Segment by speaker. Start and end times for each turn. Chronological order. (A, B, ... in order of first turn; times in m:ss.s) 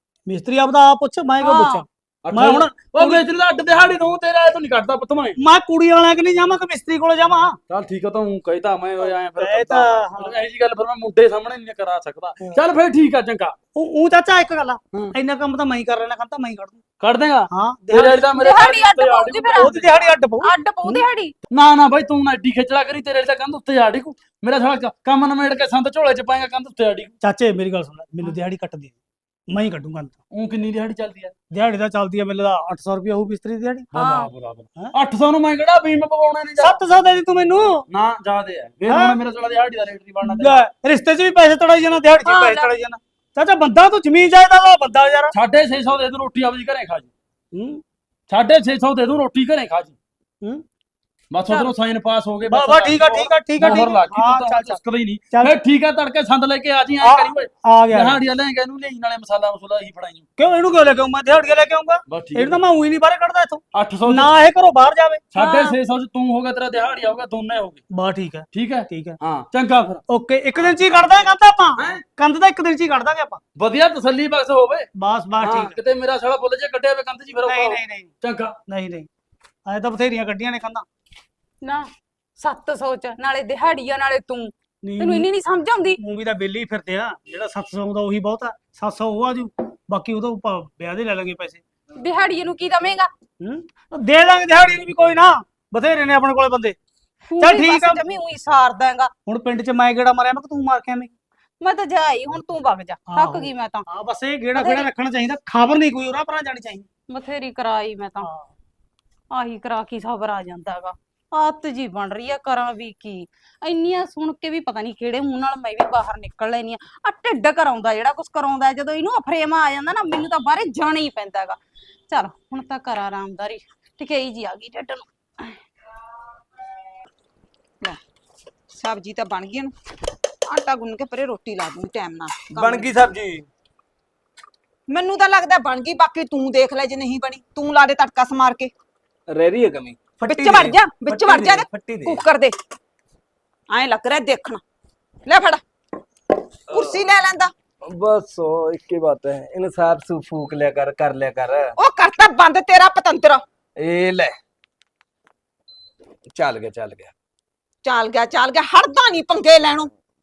0:00.3-0:03.2 A
0:01.4-0:01.8 B
0:02.2-0:05.4 C
0:05.4-0:07.6 A
0:07.7-0:13.5 C
0:09.0-0:10.4 A
0:13.7-0:16.8 A
0:17.0-0:19.9 C
0:17.5-0:18.3 A
0:18.3-0:19.7 B
0:19.6-0:21.0 A
0:20.4-0:21.3 B
0:21.5-0:27.1 C
0:27.2-0:28.9 A
0:29.5-0:30.2 A
0:30.3-0:31.3 C
0:31.5-0:33.9 A
0:33.9-0:36.8 C
0:33.9-0:34.3 B
0:36.6-0:37.8 A
0:37.9-0:40.6 C
0:38.9-0:39.2 A
0:40.2-0:45.3 A
0:42.2-0:42.7 B
0:45.3-0:47.1 C
0:47.5-0:47.8 A
0:48.3-0:49.9 C
0:51.3-1:00.2 C
0:52.5-0:54.8 A
0:55.3-0:55.6 A
0:57.0-0:58.2 A
1:00.4-1:05.2 A
1:02.1-1:02.6 C
1:03.7-1:04.4 C
1:05.3-1:07.8 C
1:05.4-1:05.8 B
1:07.9-1:09.2 A
1:08.5-1:10.0 C
1:10.1-1:13.4 A
1:11.8-1:12.0 C
1:13.6-1:14.9 C
1:15.0-1:15.7 A
1:15.4-1:18.6 C
1:17.4-1:18.1 A
1:18.7-1:19.1 A
1:19.6-1:20.8 A
1:21.6-1:26.0 B
1:24.8-1:25.3 A
1:26.0-1:31.6 A
1:32.0-1:33.1 B
1:33.4-1:36.8 A
1:37.3-1:39.1 B
1:37.4-1:38.0 A
1:39.2-1:41.1 A
1:41.6-1:43.8 B
1:43.1-1:46.9 A
1:44.6-1:44.9 B
1:47.1-1:48.3 B
1:48.2-1:48.5 A
1:49.3-2:01.6 B
2:02.1-2:05.6 B
2:08.7-2:09.7 D
2:10.5-2:13.0 D
2:12.5-2:13.4 E
2:14.9-2:18.7 D
2:19.3-2:22.2 E
2:20.2-2:22.5 D
2:23.7-2:24.6 D
2:25.2-2:25.6 D
2:26.7-2:27.0 E
2:26.7-2:27.5 D
2:27.8-2:31.8 E
2:31.8-2:33.4 D
2:33.8-2:34.3 E
2:36.3-2:37.1 E
2:37.8-2:39.9 D